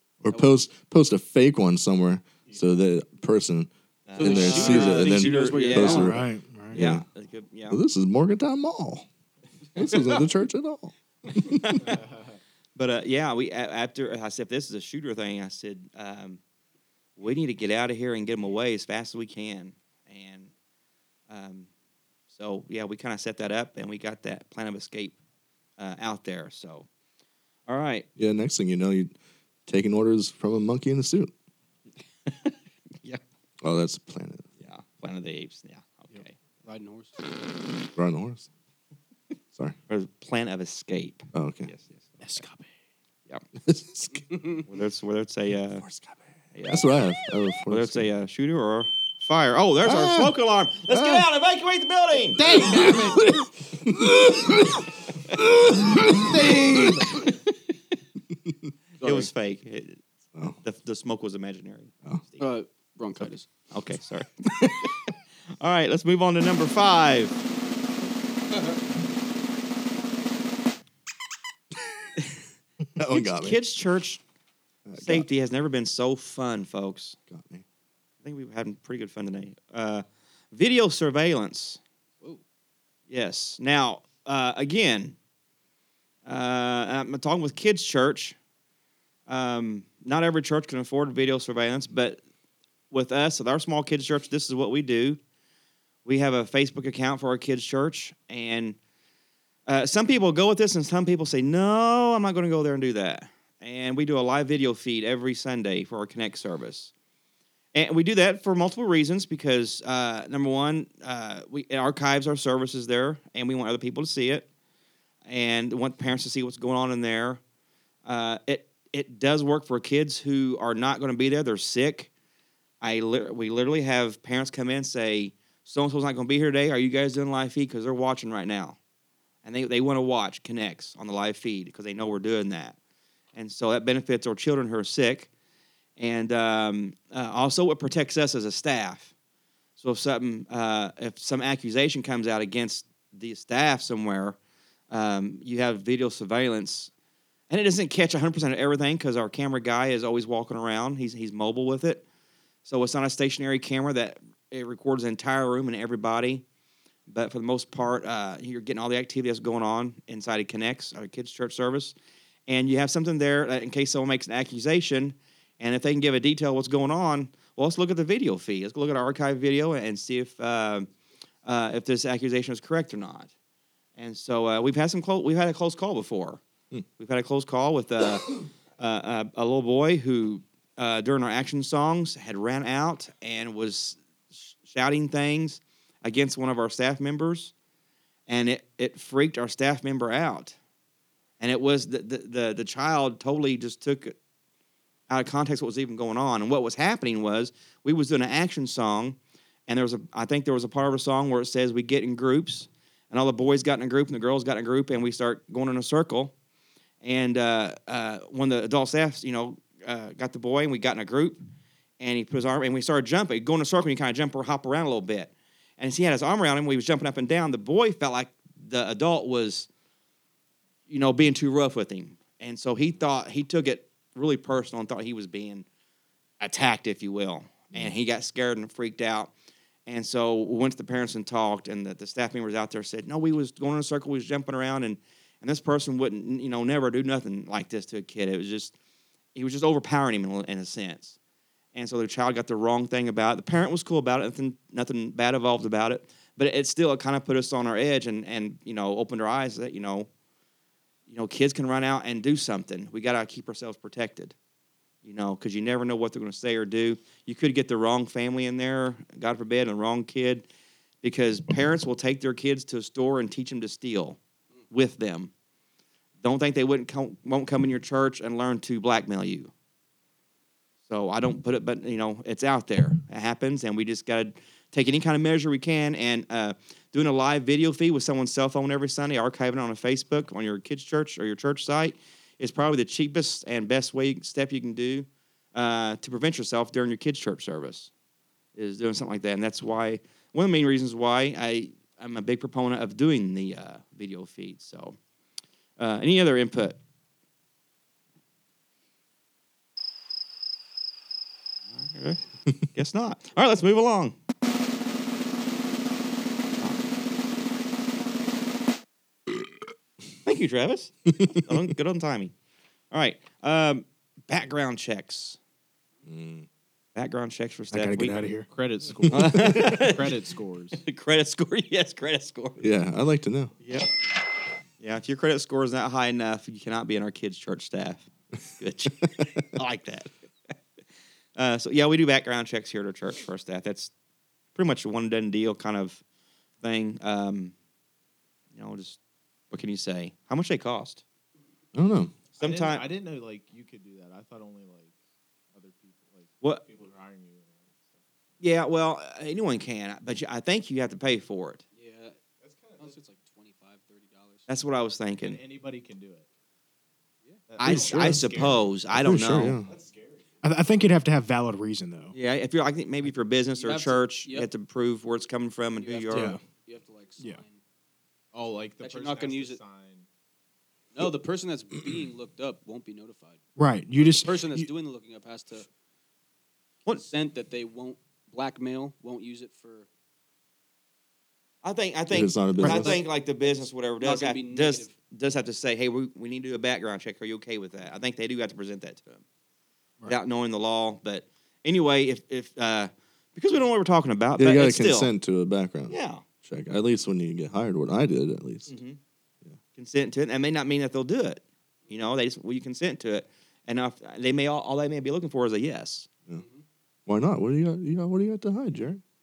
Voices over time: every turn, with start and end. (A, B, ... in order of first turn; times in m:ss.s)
0:00.2-0:07.0 A
0:00.3-0:00.6 B
0:04.1-0:06.2 C
0:04.2-0:06.2 B
0:06.0-0:06.8 D
0:06.7-0:07.8 C
0:07.7-0:09.1 A
0:09.8-0:11.6 A
0:11.4-0:12.0 C
0:12.8-0:16.4 C
0:17.2-0:20.5 C
0:21.3-0:21.7 C
0:22.3-0:25.2 C
0:25.8-0:26.9 C
0:27.7-0:28.1 C
0:28.2-0:29.1 A
0:29.7-0:31.3 A
0:32.3-0:33.2 C
0:33.6-0:34.5 A
0:34.6-0:36.4 C
0:36.6-0:37.2 B
0:38.0-0:38.5 A
0:39.9-0:42.4 C
0:41.3-0:41.7 A
0:42.2-0:42.7 D
0:43.6-0:44.2 A
0:44.3-0:44.6 B
0:44.7-0:45.9 C
0:45.8-0:46.1 A
0:46.6-0:46.9 C
0:46.7-0:48.1 A
0:47.7-0:52.4 C
0:49.8-0:50.3 A
0:50.9-0:51.2 A
0:52.4-0:53.3 E
0:52.5-0:54.6 A
0:55.4-0:56.1 A
0:56.1-0:57.1 E
0:58.4-0:58.7 A
0:59.0-1:00.0 C
0:59.0-0:59.3 B
1:00.6-1:02.5 C
1:02.4-1:03.5 B
1:03.7-1:05.0 C
1:05.6-1:07.4 C
1:13.0-1:13.6 A
1:13.1-1:14.2 C
1:14.9-1:15.3 A
1:15.0-1:17.2 C
1:17.3-1:17.6 A
1:18.2-1:21.8 C
1:23.1-1:25.2 C
1:26.3-1:28.4 C
1:29.3-1:32.2 C
1:32.9-1:35.2 C
1:36.0-1:38.8 C
1:39.7-1:46.9 C
1:47.7-1:54.5 C
1:55.3-1:57.4 C
1:58.0-2:02.1 C
2:02.8-2:08.8 C
2:09.4-2:12.8 C
2:13.3-2:15.3 C
2:16.0-2:19.1 C
2:19.8-2:24.4 C
2:24.9-2:26.9 C
2:27.5-2:32.0 C
2:32.6-2:36.4 C
2:37.1-2:42.0 C
2:42.5-2:50.9 C
2:51.5-2:53.3 C
2:54.0-2:56.4 C
2:57.0-3:07.5 C
3:08.3-3:10.6 C
3:11.4-3:14.2 C
3:15.1-3:26.3 C
3:27.0-3:31.4 C
3:32.0-3:39.7 C
3:40.9-3:45.6 C
3:46.4-3:49.3 C
3:49.9-3:58.8 C
3:59.4-4:01.2 C
4:01.7-4:10.1 C
4:11.1-4:14.3 C
4:15.0-4:20.5 C
4:21.0-4:24.2 C
4:24.7-4:25.3 C
4:26.2-4:29.5 C
4:30.9-4:47.9 C
4:48.6-4:55.0 C
4:55.8-4:56.8 C
5:01.7-5:02.2 C
5:02.7-5:04.2 C
5:06.6-5:06.9 C
5:10.2-5:12.3 C
5:12.9-5:15.4 C
5:16.1-5:16.5 A
5:17.0-5:18.2 C
5:17.7-5:18.5 D
5:18.5-5:20.8 E
5:19.1-5:20.2 C
5:20.8-5:22.6 C
5:22.6-5:23.5 A
5:23.6-5:23.9 C
5:24.8-5:30.1 C
5:31.4-5:33.9 C
5:34.6-5:36.0 C
5:36.6-5:37.5 C
5:38.6-5:39.0 C
5:39.5-5:41.0 C
5:41.7-5:42.1 A
5:42.4-5:45.0 E
5:42.4-5:42.9 C
5:45.5-5:48.0 E
5:48.4-5:51.6 C
5:51.8-5:52.2 B
5:52.4-5:53.0 E
5:52.8-5:54.4 B
5:54.5-5:55.4 C
5:55.2-5:56.3 E
5:57.5-6:00.4 E
5:57.6-5:59.6 C
5:57.6-5:58.2 A
5:59.0-5:59.7 A
6:00.4-6:02.1 D
6:02.1-6:06.4 C
6:03.6-6:04.5 B
6:05.8-6:07.6 B
6:06.1-6:06.4 D
6:08.3-6:10.1 E
6:08.8-6:09.6 B
6:10.9-6:13.4 B
6:13.6-6:14.6 D
6:14.0-6:15.7 B
6:16.9-6:19.9 B
6:21.6-6:29.2 C
6:22.1-6:23.0 A
6:22.6-6:23.0 D
6:22.9-6:24.9 B
6:30.1-6:35.1 C
6:34.4-6:38.7 A
6:35.9-6:36.2 C
6:38.7-6:39.0 C
6:39.8-6:46.1 C
6:47.1-6:49.0 A